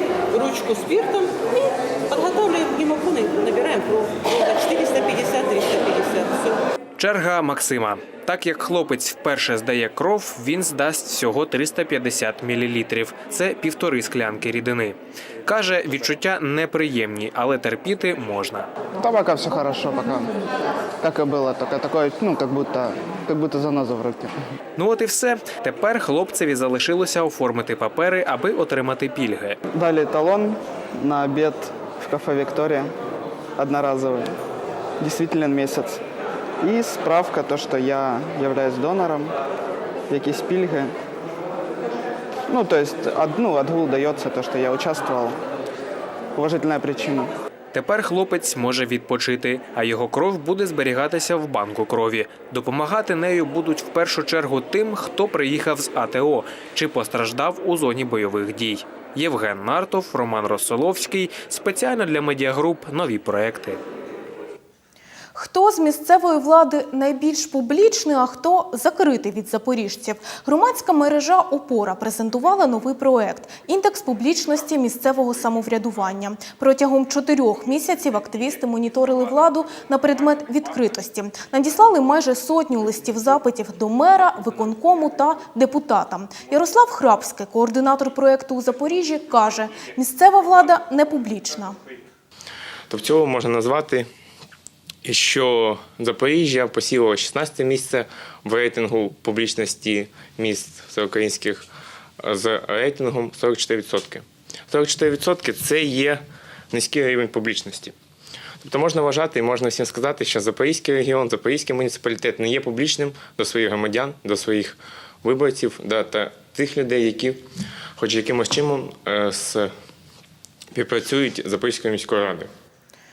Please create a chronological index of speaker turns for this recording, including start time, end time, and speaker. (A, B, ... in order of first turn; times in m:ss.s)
0:00.3-0:01.3 A
0:02.1-0:06.6 A
0:07.0-0:18.7 B
0:19.0-0:20.3 C
0:21.0-0:24.4 C
0:24.8-0:29.6 B
0:29.7-0:32.9 C
0:33.6-0:34.3 C
0:35.0-0:36.0 C
0:36.6-0:39.3 C
0:40.1-0:40.9 C
0:42.5-0:45.4 C
0:46.4-0:47.3 C
0:47.7-1:03.8 B
1:05.4-1:31.8 D
1:32.9-1:34.1 E
1:35.0-1:41.7 E
1:42.2-1:47.9 E
1:48.6-1:57.4 E
1:58.0-1:59.7 E
2:00.7-2:02.5 E